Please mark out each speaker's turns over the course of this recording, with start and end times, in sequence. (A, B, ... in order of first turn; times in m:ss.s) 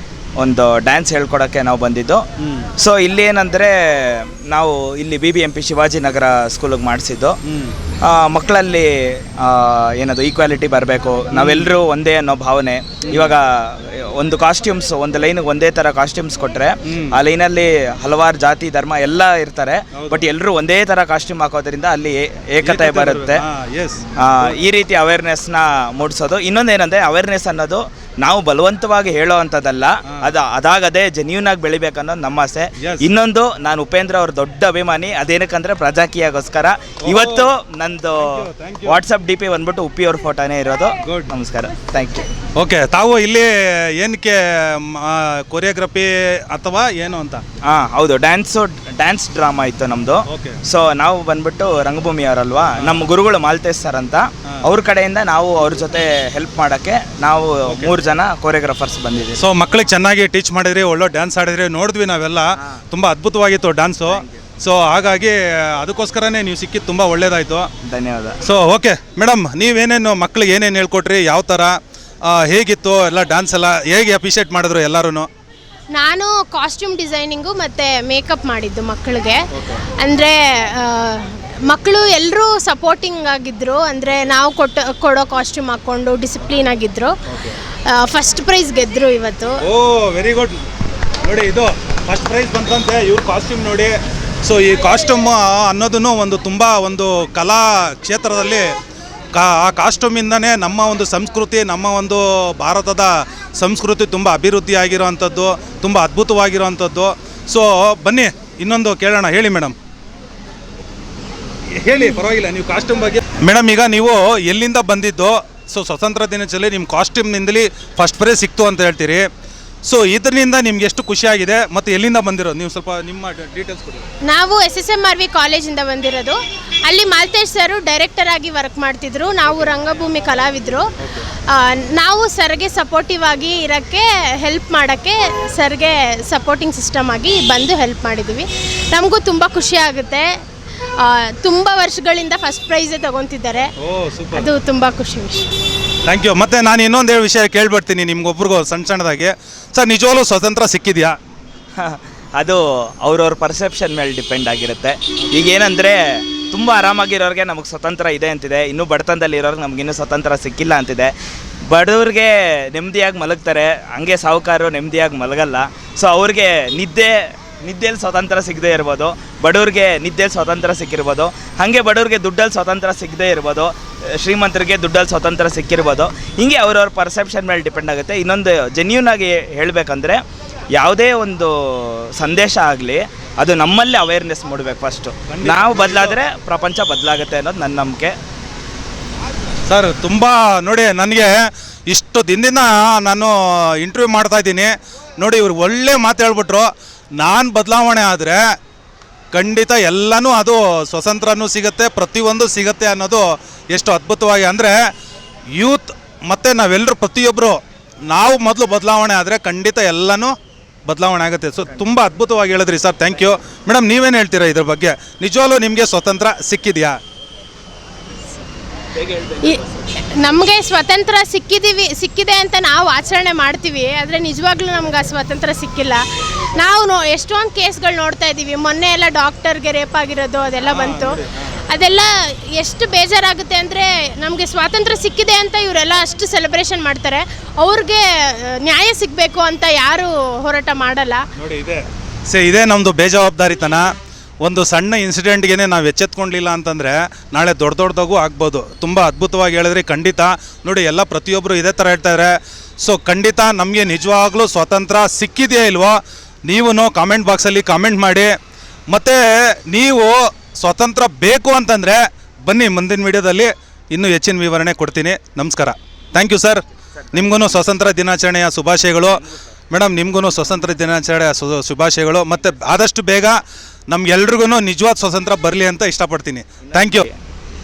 0:00.4-0:02.2 A
0:02.4-0:02.7 B
0:02.8-0:07.4 A
0:07.4-0:07.8 B
0:08.0-0:23.4 A
0:11.3-0:11.7 B
0:13.0-0:13.3 B
0:16.9-0:17.2 B
0:19.9-0:20.2 B
0:22.6-0:24.6 B
0:24.2-0:42.3 A
0:32.8-0:33.0 B
0:37.0-0:37.5 B
0:38.2-0:39.0 B
0:41.0-0:41.3 B
0:42.6-0:47.4 B
0:47.6-0:59.4 A
0:50.3-0:50.6 B
0:57.7-0:57.9 B
0:59.4-1:07.7 B
1:04.1-1:04.4 A
1:07.8-1:08.4 A
1:08.4-1:11.7 B
1:12.3-1:15.3 B
1:15.9-1:27.1 C
1:19.5-1:19.8 B
1:27.3-1:27.6 B
1:27.9-1:29.6 C
1:29.6-1:30.6 B
1:31.2-1:38.7 B
1:39.3-1:49.8 B
1:51.8-1:59.2 B
1:59.9-2:04.1 B
2:04.3-2:20.3 C
2:21.0-2:23.7 C
2:23.8-2:24.5 B
2:24.3-2:25.5 C
2:26.1-2:31.2 B
2:31.8-2:41.1 A
2:41.7-3:00.2 A
3:00.8-3:08.2 A
3:05.3-3:06.2 B
3:09.7-3:11.4 B
3:11.9-3:18.4 B
3:19.3-3:24.8 B
3:25.6-3:30.3 B
3:30.9-3:37.0 B
3:39.0-3:39.7 A
3:39.4-4:01.2 C
3:50.6-3:51.5 B
4:01.4-4:03.9 B
4:04.4-4:18.3 B
4:18.9-4:33.4 B
4:27.1-4:27.8 A
4:33.9-4:37.1 B
4:36.6-4:37.2 A